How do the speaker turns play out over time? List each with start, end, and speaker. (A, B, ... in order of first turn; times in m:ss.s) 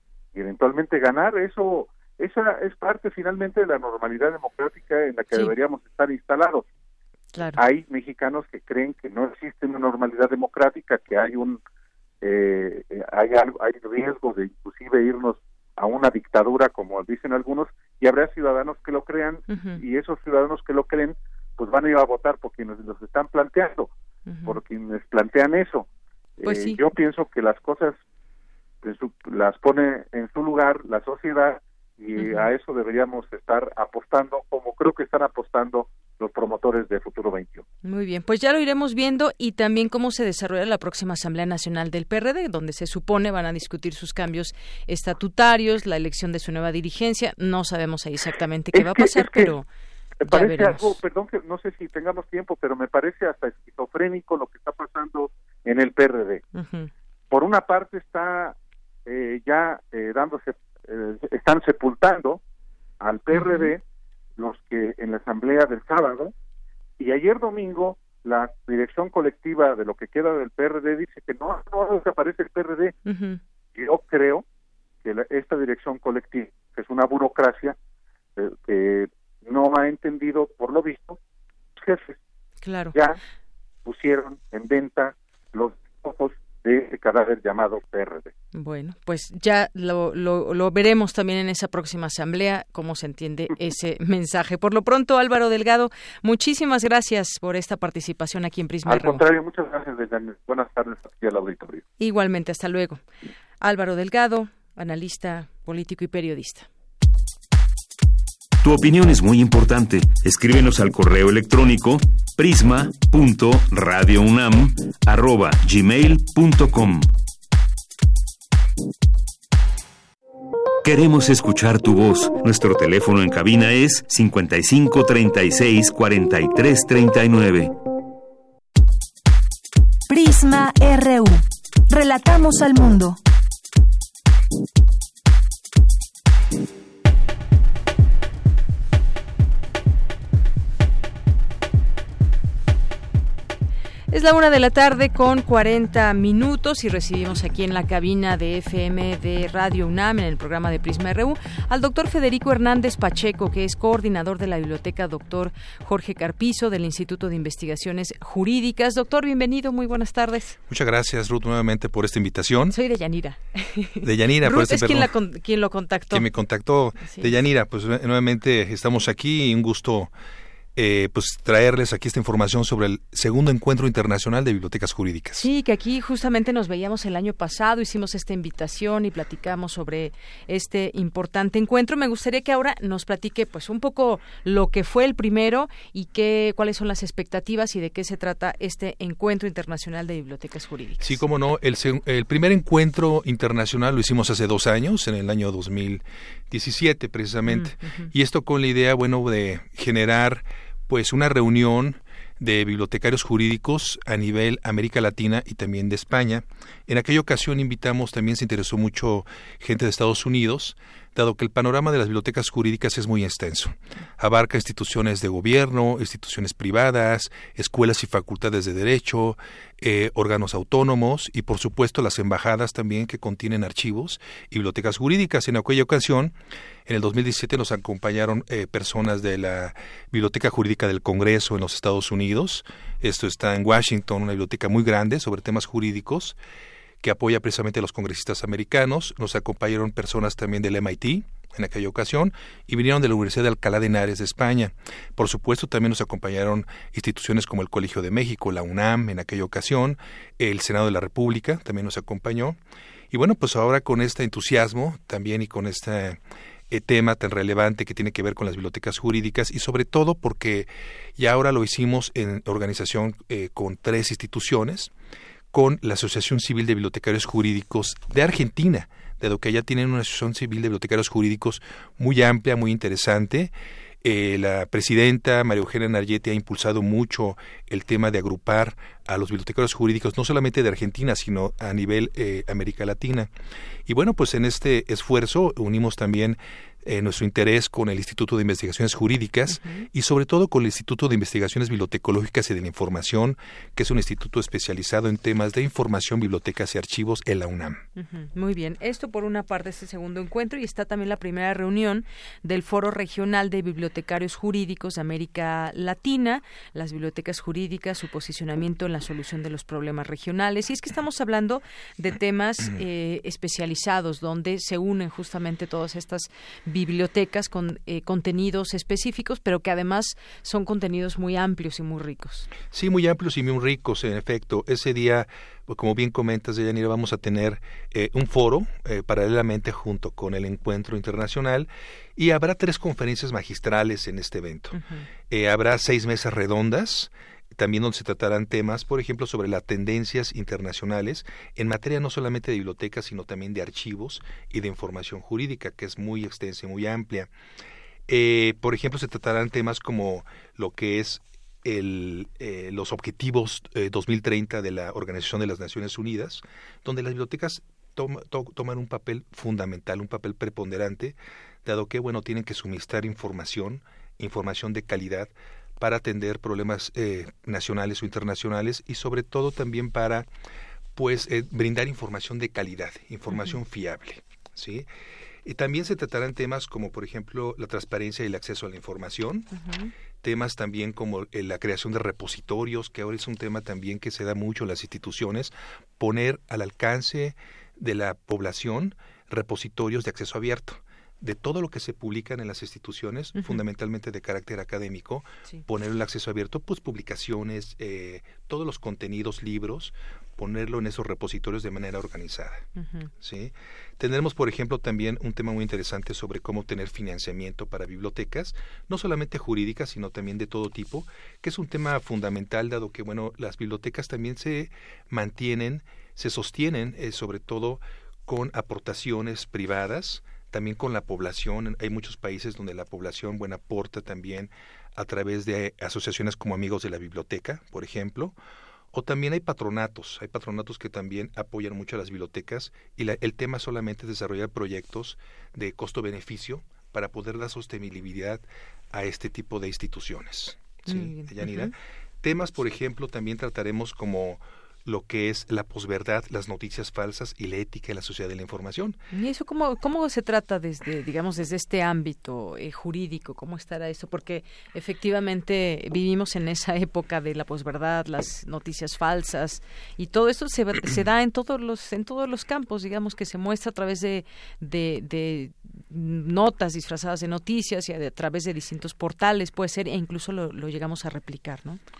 0:00.3-0:06.6 A
0:07.6-0:11.6 A
0:12.2-0:23.9 A
0:19.5-0:19.8 B
0:24.3-0:24.6 B
0:24.4-0:25.9 A
0:26.4-0:28.0 A
0:26.4-0:26.8 B
0:28.8-0:37.6 A
0:32.2-0:32.5 B
0:37.8-0:49.6 B
0:48.7-0:49.5 A
0:50.2-0:56.4 A
0:50.3-0:50.9 B
0:56.5-0:56.9 B
0:57.3-1:02.4 A
1:03.0-1:03.8 A
1:03.3-1:03.7 B
1:04.4-1:06.3 A
1:07.0-1:12.9 A
1:13.0-1:13.4 B
1:13.7-1:14.4 A
1:15.0-1:17.8 A
1:18.4-1:21.2 A
1:21.8-1:22.2 A
1:22.6-1:23.0 B
1:22.9-1:23.2 A
1:23.8-1:28.3 A
1:28.5-1:39.2 B
1:38.8-1:41.8 A
1:42.0-1:43.0 B
1:43.6-1:46.7 B
1:48.6-1:57.1 C
2:00.8-2:07.7 C
2:10.1-2:13.2 D
2:24.1-2:40.6 B
2:40.7-2:42.8 E
2:42.7-2:46.2 B
2:44.0-2:45.1 E
2:46.1-2:50.1 E
2:47.0-2:47.3 B
2:50.8-2:55.5 E
2:55.4-3:11.2 B
3:11.0-3:46.3 E
3:17.5-3:18.1 B
3:46.9-3:56.4 E
3:57.0-4:12.6 E
4:13.1-4:24.9 E
4:25.5-4:33.5 E
4:34.0-4:43.3 E
4:43.8-4:57.8 E
4:49.5-4:49.8 B
4:58.0-5:22.5 B
5:22.7-5:34.8 E
5:34.7-5:35.0 B
5:35.3-5:47.3 E
5:48.1-6:10.3 E
6:10.9-6:14.9 E
6:13.3-6:13.6 B
6:15.4-6:19.5 E
6:19.5-6:19.9 B
6:20.2-6:42.6 E
6:33.4-6:33.6 B
6:42.8-6:43.1 B
6:43.2-7:08.3 E
7:08.9-7:29.0 E
7:20.8-7:21.7 B
7:29.1-7:51.8 B